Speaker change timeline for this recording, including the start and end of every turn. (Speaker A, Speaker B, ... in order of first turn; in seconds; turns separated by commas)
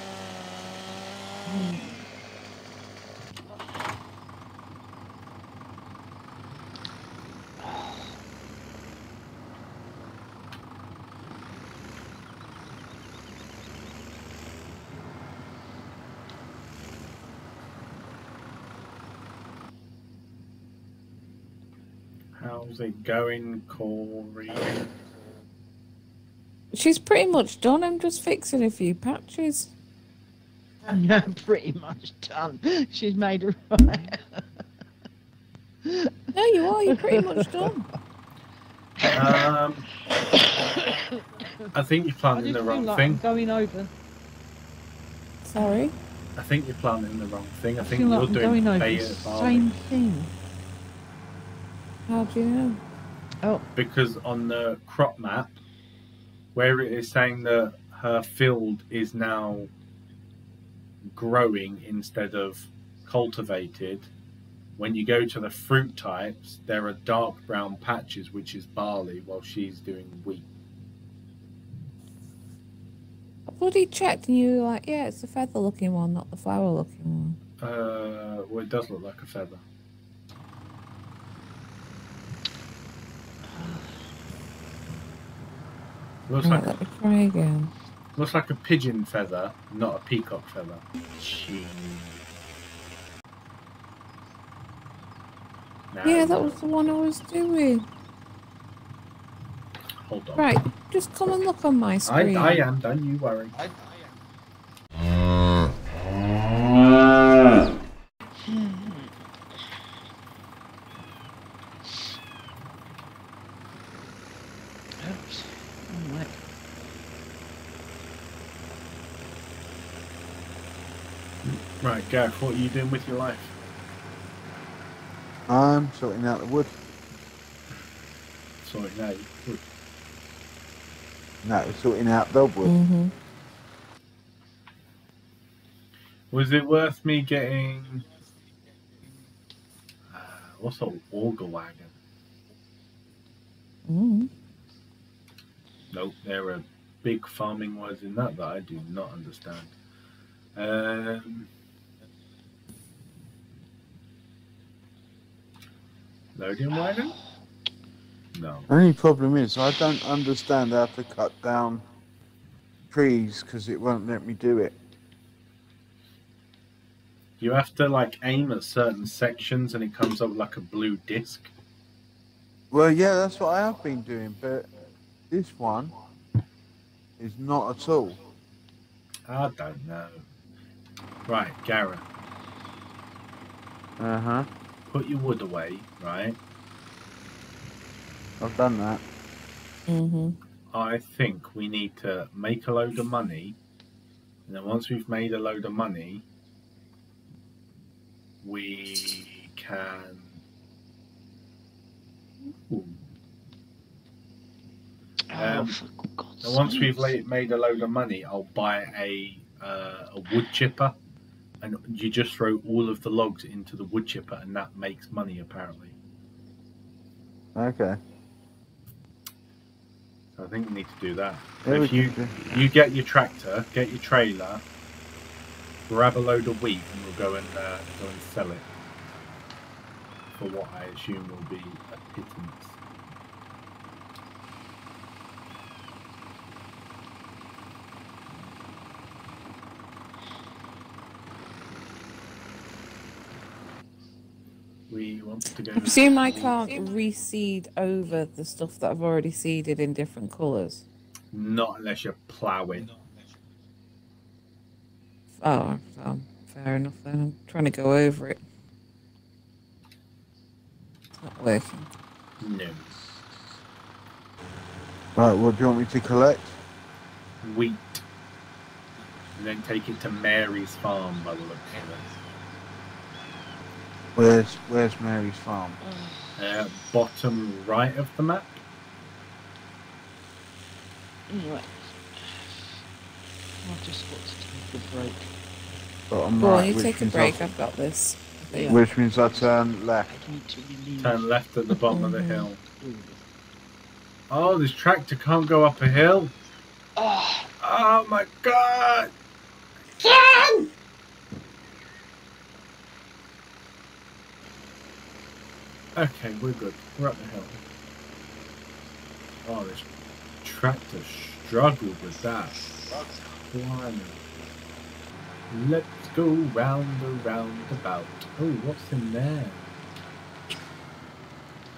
Speaker A: 1.4-2.0, Speaker A: 7.6-8.1, Speaker B: 22.4-24.9, Speaker C: 26.7-29.7, Speaker A: 30.9-34.5, Speaker A: 35.8-36.3, Speaker C: 36.3-37.9, Speaker A: 36.8-37.7, Speaker A: 39.0-39.5, Speaker B: 39.1-39.9, Speaker A: 40.1-41.7, Speaker B: 41.7-43.2, Speaker A: 42.3-43.9, Speaker C: 45.4-45.9, Speaker B: 46.4-49.7, Speaker A: 47.8-50.3, Speaker C: 52.1-52.8, Speaker B: 53.8-55.6, Speaker B: 56.5-59.7, Speaker B: 61.1-64.1, Speaker B: 64.8-70.5, Speaker C: 73.5-77.4, Speaker B: 77.6-79.6, Speaker A: 83.5-84.0, Speaker B: 86.3-86.7, Speaker C: 86.4-87.7, Speaker B: 88.2-92.2, Speaker B: 95.9-96.6, Speaker C: 96.0-97.8, Speaker B: 100.0-100.6, Speaker C: 100.4-102.7, Speaker B: 102.0-103.6, Speaker A: 108.4-109.2, Speaker A: 115.0-116.3, Speaker B: 121.4-123.5, Speaker D: 125.5-126.7, Speaker B: 128.6-129.6, Speaker D: 131.4-132.7, Speaker C: 132.6-133.1, Speaker B: 136.3-138.1, Speaker B: 140.1-141.9, Speaker C: 143.8-144.3, Speaker B: 145.9-149.7, Speaker B: 150.6-151.5, Speaker B: 156.3-157.2, Speaker B: 158.3-158.7, Speaker D: 158.7-161.8, Speaker D: 162.9-164.7, Speaker B: 167.4-171.5, Speaker D: 172.7-174.7, Speaker D: 175.3-175.9, Speaker D: 177.2-178.2, Speaker B: 179.3-180.2, Speaker B: 181.3-182.0, Speaker D: 184.0-184.5, Speaker B: 184.9-186.4, Speaker D: 188.4-189.0, Speaker C: 189.9-190.4, Speaker B: 190.7-193.6, Speaker B: 194.5-196.2, Speaker B: 198.4-200.4, Speaker B: 202.7-203.0, Speaker A: 205.3-207.1, Speaker B: 205.3-205.8, Speaker B: 206.4-210.9, Speaker B: 211.6-215.9, Speaker D: 217.5-218.0, Speaker B: 220.3-224.6, Speaker D: 221.6-222.4, Speaker B: 225.9-228.6, Speaker B: 230.4-232.8, Speaker B: 244.9-246.4, Speaker C: 245.8-250.8, Speaker B: 251.3-252.9, Speaker C: 255.4-258.4, Speaker C: 261.2-261.9, Speaker B: 262.4-263.4, Speaker D: 265.1-266.5, Speaker B: 267.4-268.0, Speaker B: 269.4-272.1, Speaker D: 274.1-275.8, Speaker A: 275.8-276.4, Speaker B: 276.4-278.6, Speaker A: 281.3-282.8, Speaker A: 283.6-285.3, Speaker D: 286.1-287.4, Speaker C: 286.4-288.8, Speaker A: 288.5-289.4, Speaker D: 288.7-290.1, Speaker A: 290.1-291.8, Speaker B: 291.0-292.6, Speaker C: 291.9-292.4, Speaker A: 292.7-293.2, Speaker B: 294.3-296.3, Speaker A: 296.9-297.5, Speaker B: 297.6-299.1, Speaker B: 300.0-300.6, Speaker B: 305.9-307.6, Speaker B: 309.4-309.9, Speaker B: 310.4-312.6, Speaker B: 313.5-314.2, Speaker B: 315.5-319.7